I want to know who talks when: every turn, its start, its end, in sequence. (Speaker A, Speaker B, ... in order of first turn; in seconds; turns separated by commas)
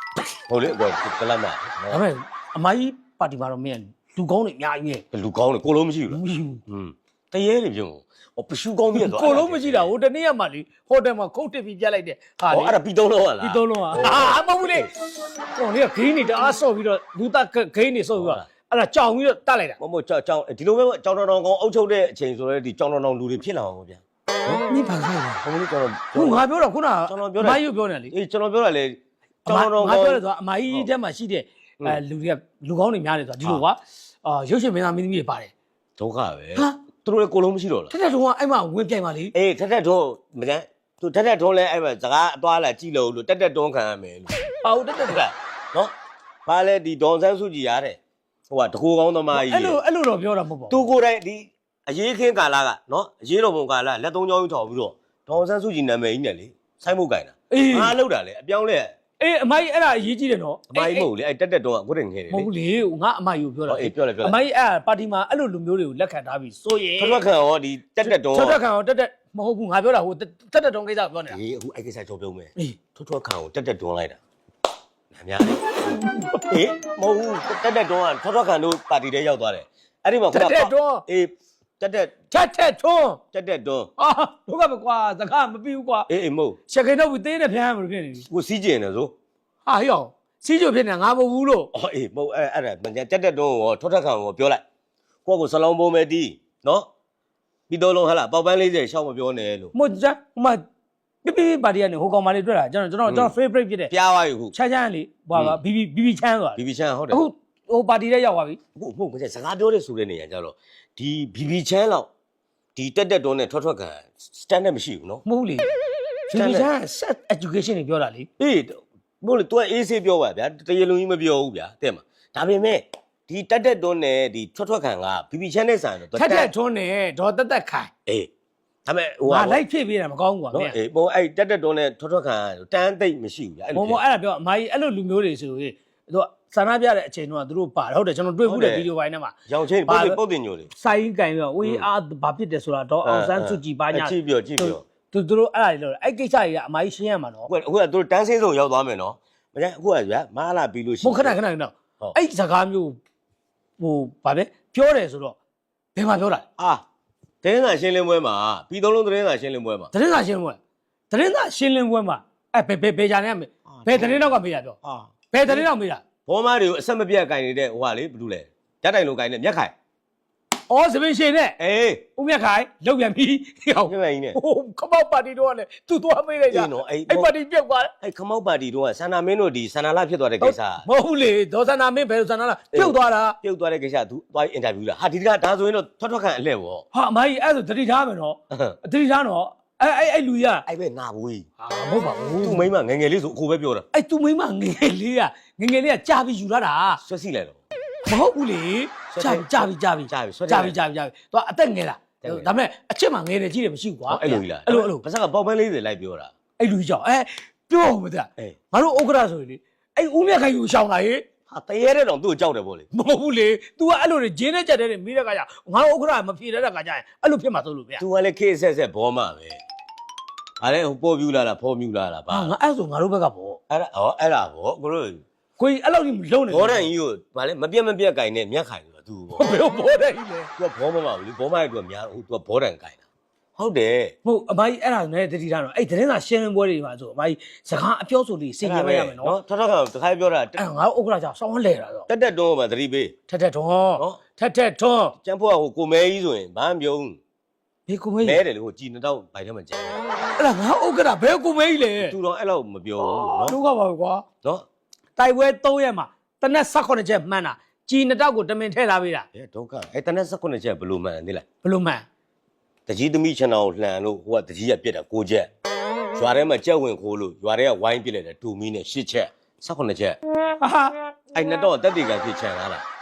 Speaker A: 0.5-2.0, Speaker B: 1.9-5.0, Speaker A: 5.1-9.9, Speaker B: 6.1-6.6, Speaker B: 8.9-12.8, Speaker A: 12.5-14.9, Speaker B: 13.4-19.8, Speaker A: 18.2-18.4, Speaker A: 19.8-24.6, Speaker B: 24.6-25.4, Speaker A: 25.4-26.4, Speaker B: 26.1-28.1, Speaker A: 27.1-30.9, Speaker B: 29.5-35.5, Speaker A: 36.0-37.9, Speaker B: 37.9-39.3, Speaker A: 39.3-44.3, Speaker B: 44.6-45.2, Speaker A: 45.0-45.9, Speaker A: 46.5-49.8, Speaker B: 49.3-50.8, Speaker A: 50.7-58.9, Speaker B: 57.5-58.0, Speaker B: 59.2-61.1, Speaker A: 60.7-62.5, Speaker B: 62.3-67.2, Speaker A: 63.7-64.4, Speaker A: 67.0-68.6, Speaker B: 68.0-71.4, Speaker A: 71.3-74.2, Speaker A: 75.1-75.7, Speaker B: 75.8-76.5, Speaker A: 76.5-82.1, Speaker B: 80.3-81.0, Speaker B: 82.3-83.2, Speaker A: 83.3-83.9, Speaker B: 84.0-86.1, Speaker A: 86.1-86.6, Speaker B: 86.7-88.3, Speaker A: 88.3-89.1, Speaker B: 89.7-91.7, Speaker A: 91.7-94.6, Speaker A: 95.2-96.9, Speaker A: 97.7-99.7, Speaker B: 99.7-100.6, Speaker B: 101.2-103.9, Speaker A: 103.1-103.3, Speaker A: 103.9-104.5, Speaker B: 104.5-106.6, Speaker A: 106.5-107.2, Speaker B: 107.1-108.6, Speaker A: 108.8-112.1, Speaker A: 112.7-115.2, Speaker B: 115.2-115.7, Speaker A: 116.3-116.7, Speaker B: 116.3-118.3, Speaker A: 118.4-126.5, Speaker B: 126.1-127.9, Speaker A: 128.8-129.6, Speaker B: 129.3-130.8, Speaker A: 130.5-134.0, Speaker B: 133.7-139.3, Speaker A: 138.4-138.9, Speaker A: 139.5-140.7, Speaker B: 139.9-140.2, Speaker B: 140.7-147.5, Speaker A: 143.0-144.8, Speaker A: 147.5-151.4, Speaker B: 151.0-153.0, Speaker B: 153.8-155.3, Speaker B: 155.9-156.4, Speaker A: 156.6-156.8, Speaker A: 157.4-159.9, Speaker B: 159.9-160.6, Speaker B: 161.1-164.8, Speaker A: 163.7-165.7, Speaker B: 165.3-166.0, Speaker A: 166.3-169.7, Speaker B: 170.7-171.6, Speaker A: 171.6-172.0, Speaker B: 172.2-177.9, Speaker A: 173.8-174.4, Speaker A: 176.5-177.3, Speaker A: 178.0-180.8, Speaker B: 180.4-183.4, Speaker A: 182.7-186.8, Speaker B: 186.9-190.6, Speaker A: 188.5-188.8, Speaker A: 190.7-191.5, Speaker B: 191.6-192.7, Speaker A: 192.4-193.8, Speaker B: 193.9-197.0, Speaker A: 196.9-197.6, Speaker B: 198.1-205.0, Speaker A: 199.1-200.8, Speaker A: 202.2-202.5, Speaker A: 204.1-206.3, Speaker B: 206.6-211.2, Speaker A: 211.5-212.9, Speaker B: 212.9-218.0, Speaker A: 218.0-219.6, Speaker A: 220.6-222.5, Speaker B: 222.3-223.6, Speaker A: 223.7-225.2, Speaker B: 225.6-226.9, Speaker A: 226.5-229.5, Speaker B: 229.3-230.5, Speaker A: 230.6-233.0, Speaker A: 233.6-234.1, Speaker B: 234.2-239.4, Speaker A: 238.6-240.6, Speaker B: 240.6-242.1, Speaker A: 242.1-243.1, Speaker B: 243.3-245.2, Speaker A: 245.2-247.2, Speaker B: 247.9-248.4, Speaker A: 248.2-250.0, Speaker B: 250.4-252.1, Speaker A: 252.0-253.6, Speaker B: 253.0-254.2, Speaker B: 255.2-259.2, Speaker A: 259.3-261.4, Speaker B: 261.6-262.1, Speaker A: 262.9-265.5, Speaker A: 266.1-270.2, Speaker B: 270.6-270.9, Speaker A: 271.3-272.8